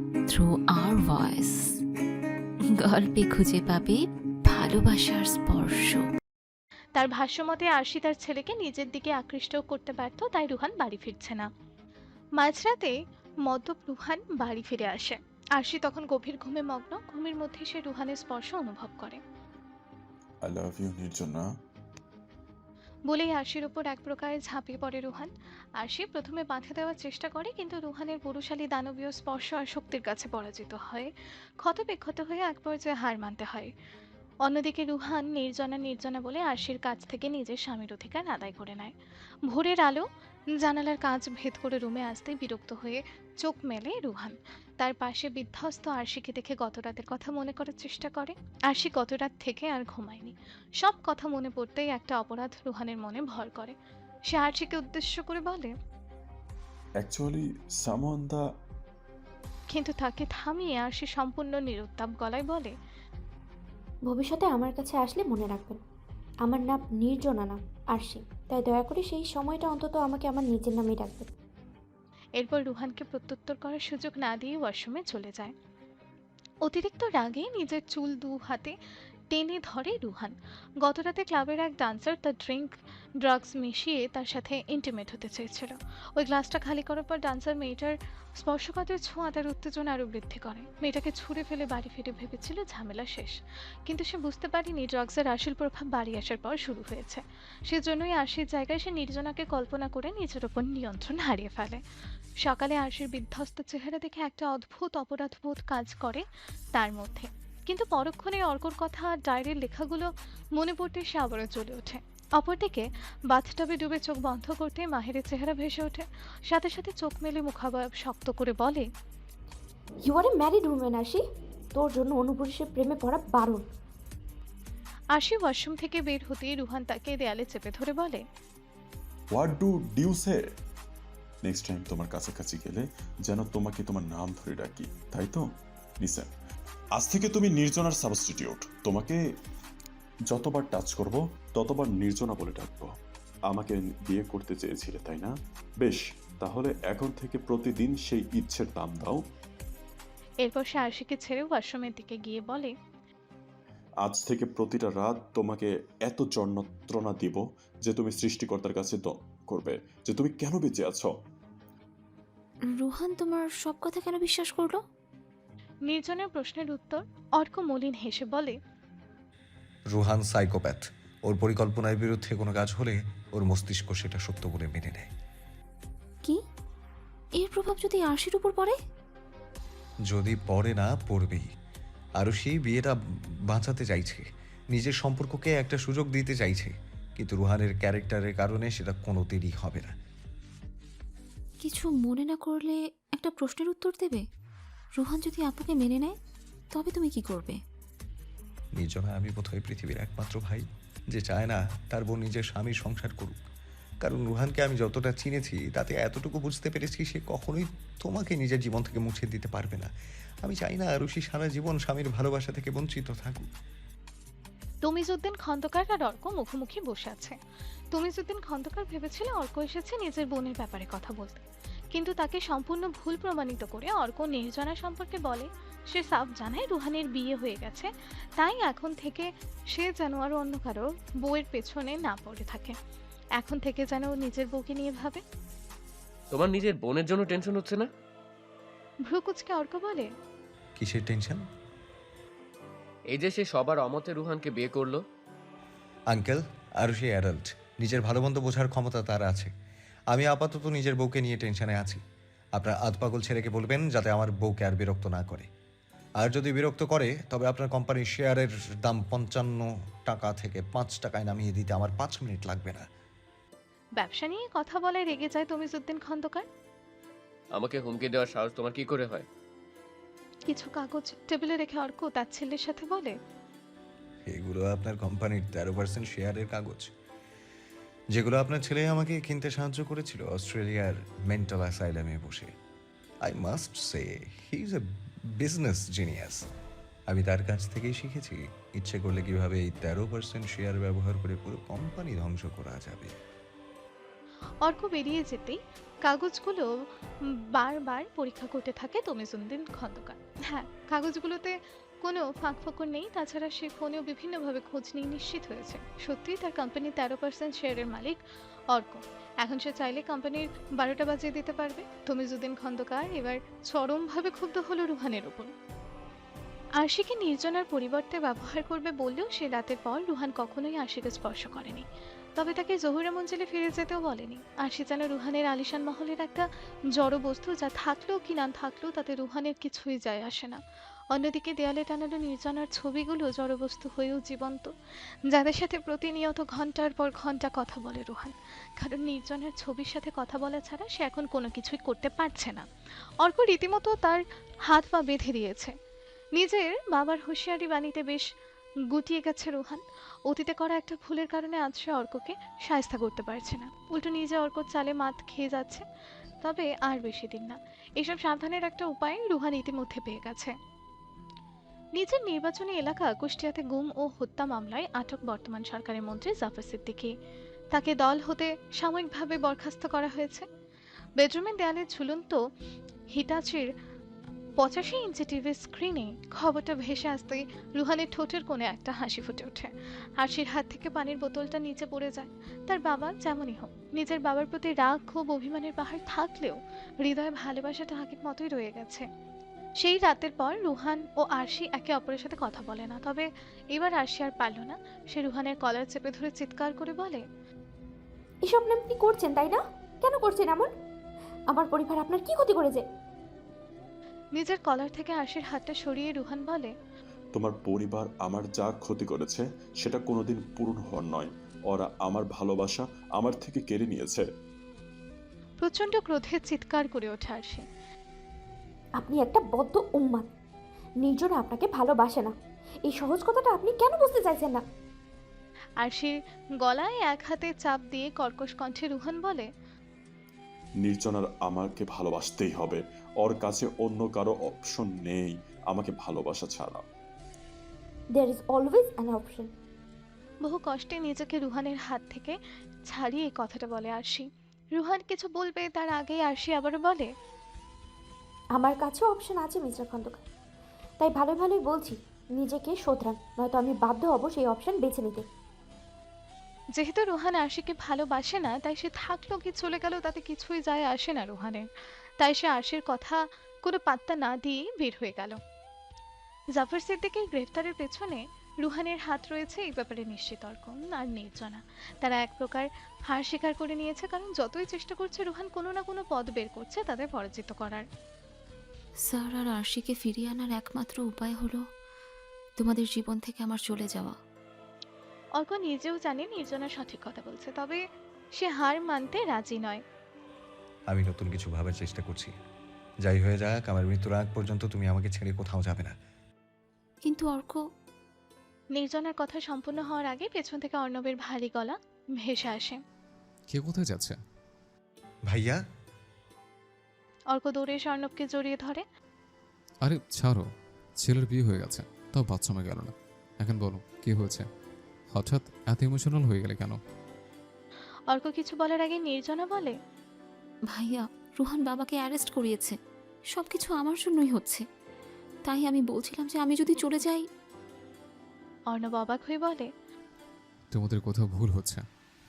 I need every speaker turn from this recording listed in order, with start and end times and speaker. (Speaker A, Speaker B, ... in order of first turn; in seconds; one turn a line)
Speaker A: 0.3-1.6
Speaker A: 2.8-6.0
Speaker B: 6.9-11.4
Speaker B: 12.4-12.9
Speaker B: 13.4-19.2
Speaker C: 20.4-21.4
Speaker B: 23.1-31.1
Speaker B: 31.6-33.7
Speaker B: 34.4-38.9
Speaker B: 39.5-40.0
Speaker B: 40.6-53.7
Speaker B: 54.3-55.7
Speaker C: 57.0-58.4
Speaker B: 59.7-62.7
Speaker D: 64.1-65.8
Speaker D: 66.4-71.3
Speaker B: 72.4-75.5
Speaker B: 76.7-78.7
Speaker B: 79.3-82.7
Speaker B: 83.2-93.3
Speaker B: 93.9-101.8
Speaker B: 102.4-118.8
Speaker D: 120.0-121.2
Speaker D: 121.7-123.7
Speaker B: 125.1-128.2
Speaker C: 129.3-130.4
Speaker C: 131.4-135.4
Speaker C: 136.0-136.3
Speaker C: 137.0-139.2
Speaker C: 140.3-142.9
Speaker C: 143.5-149.2
Speaker B: 150.4-152.7
Speaker C: 154.0-161.1
Speaker A: 162.7-164.8
Speaker B: 165.9-168.6
Speaker E: 169.9-175.1
Speaker A: 177.4-178.7
Speaker E: 180.1-181.4
Speaker E: 182.2-182.9
Speaker E: 183.5-189.9
Speaker A: 191.6-194.2
Speaker A: 195.0-196.1
Speaker A: 196.7-197.6
Speaker E: 198.8-200.6
Speaker E: 201.1-203.4
Speaker E: 204.0-209.9
Speaker E: 210.4-213.4
Speaker B: 214.8-217.3
Speaker B: 217.9-221.4
Speaker B: 221.9-232.7
Speaker B: 233.4-235.2
Speaker F: 236.3-237.8
Speaker B: 239.1-240.1
Speaker E: 240.8-241.4
Speaker F: 243.1-245.0
Speaker E: 246.1-249.5
Speaker E: 250.1-252.0
Speaker E: 252.6-255.5
Speaker E: 256.2-262.8
Speaker B: 264.0-266.4
Speaker F: 267.5-269.2
Speaker B: 270.5-273.1
Speaker E: 274.3-276.9
Speaker E: 278.1-282.5
Speaker E: 283.3-284.8
Speaker E: 285.4-286.4
Speaker E: 287.1-293.2
Speaker B: 294.6-296.7
Speaker B: 297.6-308.2
Speaker B: 308.7-315.5
Speaker B: 316.8-321.8
Speaker B: 322.4-330.6
Speaker B: 331.1-334.7
Speaker B: 335.3-342.6
Speaker B: 343.2-345.7
Speaker B: 346.4-348.2
Speaker B: 348.9-355.8
Speaker B: 356.4-360.5
Speaker B: 362.0-367.1
Speaker B: 367.7-370.4
Speaker B: 371.2-372.4
Speaker B: 373.1-373.6
Speaker B: 374.6-389.0
Speaker B: 389.8-397.2
Speaker D: 398.4-400.7
Speaker D: 401.5-402.8
Speaker B: 404.4-406.7
Speaker C: 407.3-414.2
Speaker B: 415.6-417.6
Speaker D: 419.0-420.3
Speaker D: 421.0-422.3
Speaker D: 422.9-424.6
Speaker B: 425.8-429.4
Speaker C: 430.8-436.8
Speaker D: 438.1-439.5
Speaker B: 440.4-442.4
Speaker B: 442.9-447.1
Speaker D: 448.6-450.2
Speaker D: 451.0-455.2
Speaker B: 456.8-461.6
Speaker B: 462.2-465.4
Speaker B: 466.6-477.8
Speaker A: 479.1-481.6
Speaker A: 482.6-484.1
Speaker B: 485.4-487.8
Speaker B: 488.4-489.8
Speaker E: 490.9-492.3
Speaker E: 493.1-495.9
Speaker A: 497.0-497.6
Speaker B: 498.8-502.8
Speaker G: 503.5-504.2
Speaker E: 505.3-505.6
Speaker B: 507.3-508.8
Speaker G: 509.8-510.4
Speaker G: 511.0-514.5
Speaker G: 515.1-516.8
Speaker B: 518.1-519.7
Speaker A: 520.7-522.8
Speaker A: 523.3-524.6
Speaker A: 525.4-527.2
Speaker B: 528.7-529.7
Speaker G: 530.7-531.8